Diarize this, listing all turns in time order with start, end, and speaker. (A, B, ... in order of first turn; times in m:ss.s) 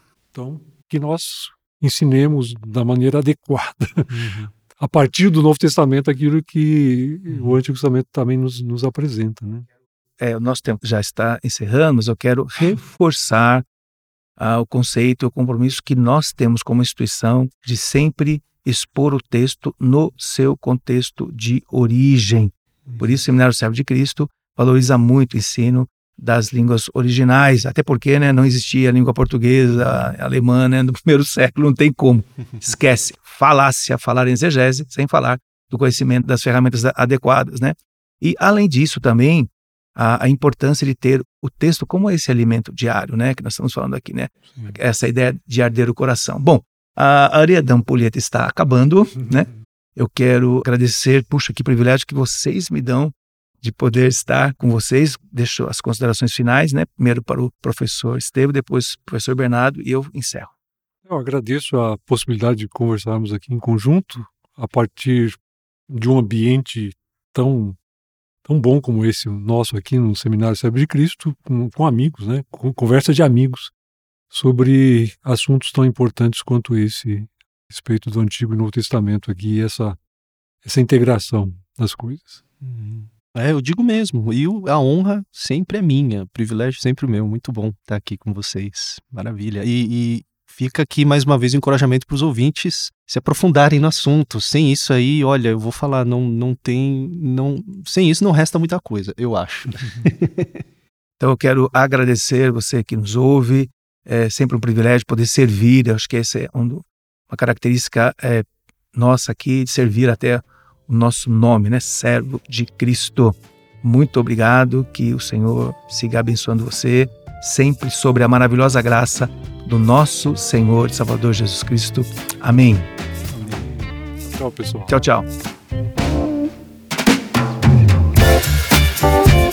0:00.3-0:04.1 A
0:04.1-0:04.5 B
0:04.8-0:09.6 A
0:07.3-0:07.6 B
0:10.2-0:13.6 C
0:14.4-1:00.5 C
0:22.9-0:23.2 B
0:29.8-0:30.1 B
1:01.1-1:05.4 A
1:05.9-1:07.8 A
1:08.4-1:13.7 A
1:14.3-1:20.0 A
1:20.6-1:22.4 A
1:22.6-1:40.6 B
1:41.2-2:02.9 C
2:03.3-2:03.7 B
2:03.3-2:05.0 A
2:04.9-2:05.3 C